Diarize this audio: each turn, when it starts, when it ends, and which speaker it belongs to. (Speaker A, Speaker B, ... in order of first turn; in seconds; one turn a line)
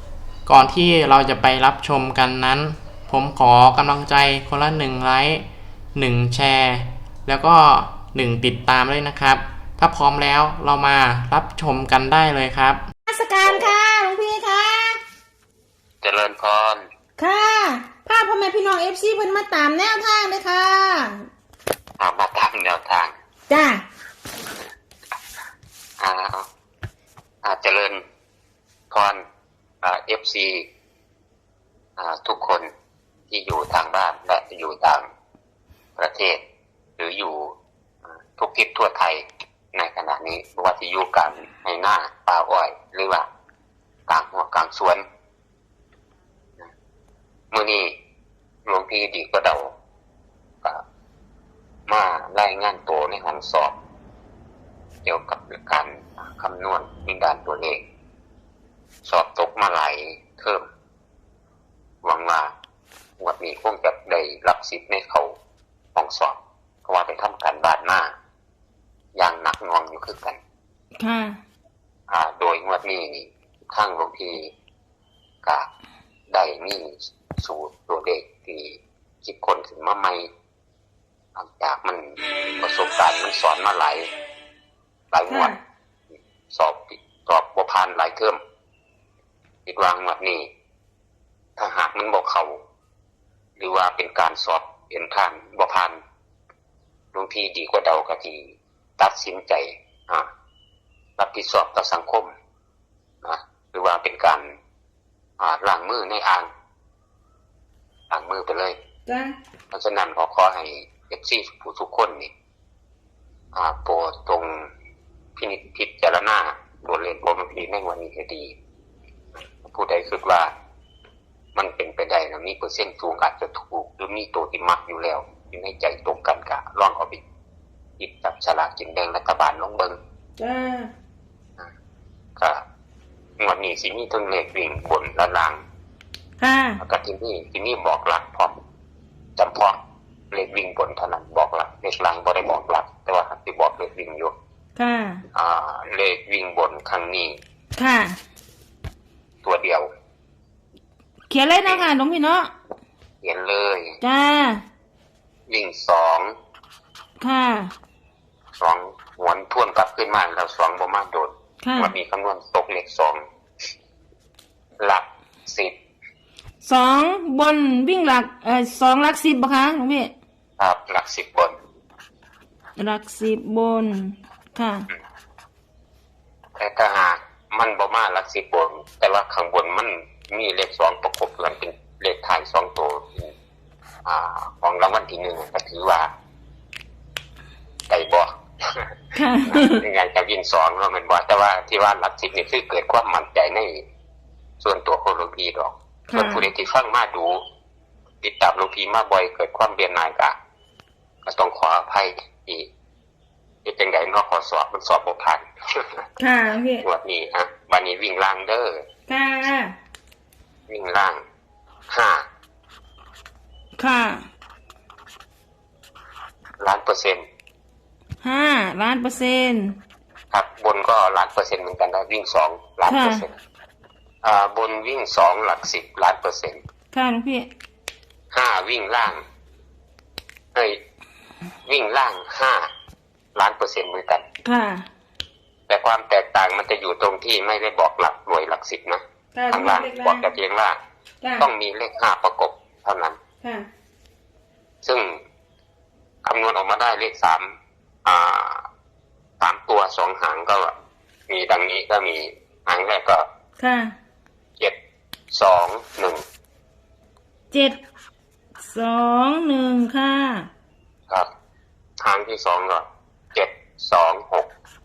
Speaker A: 0.5-5.4
Speaker A: 6.0-12.8
Speaker B: 13.1-15.0
Speaker C: 16.0-16.9
Speaker B: 17.2-21.3
Speaker C: 22.0-23.1
Speaker B: 23.5-23.8
Speaker C: 26.0-26.5
Speaker C: 27.4-28.0
Speaker C: 28.9-29.2
Speaker C: 29.8-30.7
Speaker C: 32.0-32.7
Speaker C: 33.3-35.0
Speaker C: 36.0-36.4
Speaker C: 37.0-37.5
Speaker C: 38.3-39.2
Speaker C: 39.7-43.3
Speaker C: 44.1-45.0
Speaker C: 47.5-47.9
Speaker C: 48.7-49.8
Speaker C: 51.9-53.8
Speaker C: 55.0-57.8
Speaker C: 59.0-60.6
Speaker C: 62.0-62.5
Speaker C: 63.2-65.3
Speaker C: 66.0-68.1
Speaker C: 69.2-70.4
Speaker B: 71.0-71.4
Speaker C: 72.1-74.5
Speaker C: 76.3-80.3
Speaker C: 81.4-84.1
Speaker C: 85.1-85.5
Speaker B: 85.3-85.6
Speaker C: 86.5-88.4
Speaker C: 89.7-90.5
Speaker C: 91.6-92.6
Speaker C: 93.6-96.0
Speaker C: 97.1-100.3
Speaker C: 101.2-102.3
Speaker C: 103.2-104.5
Speaker C: 105.4-106.5
Speaker C: 108.1-108.8
Speaker B: 109.1-109.4
Speaker C: 109.7-112.3
Speaker C: 113.5-114.7
Speaker C: 115.4-118.5
Speaker C: 119.5-120.5
Speaker C: 121.5-127.2
Speaker C: 128.0-130.0
Speaker B: 130.4-130.9
Speaker C: 132.4-132.6
Speaker C: 133.4-135.6
Speaker B: 136.4-136.8
Speaker C: 136.8-138.6
Speaker C: 139.4-139.8
Speaker C: 140.3-144.3
Speaker B: 144.8-145.2
Speaker C: 145.3-147.4
Speaker B: 147.8-148.2
Speaker C: 149.4-149.9
Speaker B: 151.3-152.5
Speaker C: 153.2-154.0
Speaker B: 154.0-154.6
Speaker C: 155.5-156.3
Speaker B: 157.2-157.7
Speaker C: 158.6-163.2
Speaker B: 161.6-161.9
Speaker C: 164.8-165.8
Speaker B: 166.6-170.1
Speaker C: 170.6-171.6
Speaker B: 172.8-174.9
Speaker C: 176.6-183.3
Speaker C: 184.1-186.1
Speaker C: 187.9-188.9
Speaker B: 189.1-189.8
Speaker C: 189.5-193.8
Speaker C: 194.6-197.4
Speaker B: 196.1-196.5
Speaker C: 198.2-200.3
Speaker C: 201.2-202.7
Speaker C: 203.7-206.0
Speaker B: 206.2-206.9
Speaker C: 206.8-208.8
Speaker B: 209.1-209.8
Speaker C: 210.7-211.2
Speaker C: 211.9-212.2
Speaker B: 213.8-214.3
Speaker C: 216.6-217.2
Speaker B: 218.2-219.8
Speaker C: 220.3-223.3
Speaker B: 222.9-223.2
Speaker C: 224.2-226.6
Speaker B: 226.9-227.5
Speaker C: 228.3-229.2
Speaker C: 230.5-230.8
Speaker C: 231.7-232.7
Speaker C: 233.4-234.2
Speaker B: 234.4-234.9
Speaker C: 235.7-240.8
Speaker B: 239.3-240.3
Speaker B: 241.2-241.5
Speaker C: 241.4-243.2
Speaker B: 243.4-243.7
Speaker C: 244.8-245.2
Speaker C: 246.2-247.5
Speaker C: 248.1-248.7
Speaker C: 249.4-250.7
Speaker C: 251.3-253.3
Speaker B: 253.6-253.9
Speaker C: 255.3-256.2
Speaker B: 257.5-257.8
Speaker B: 258.6-260.5
Speaker C: 262.0-264.5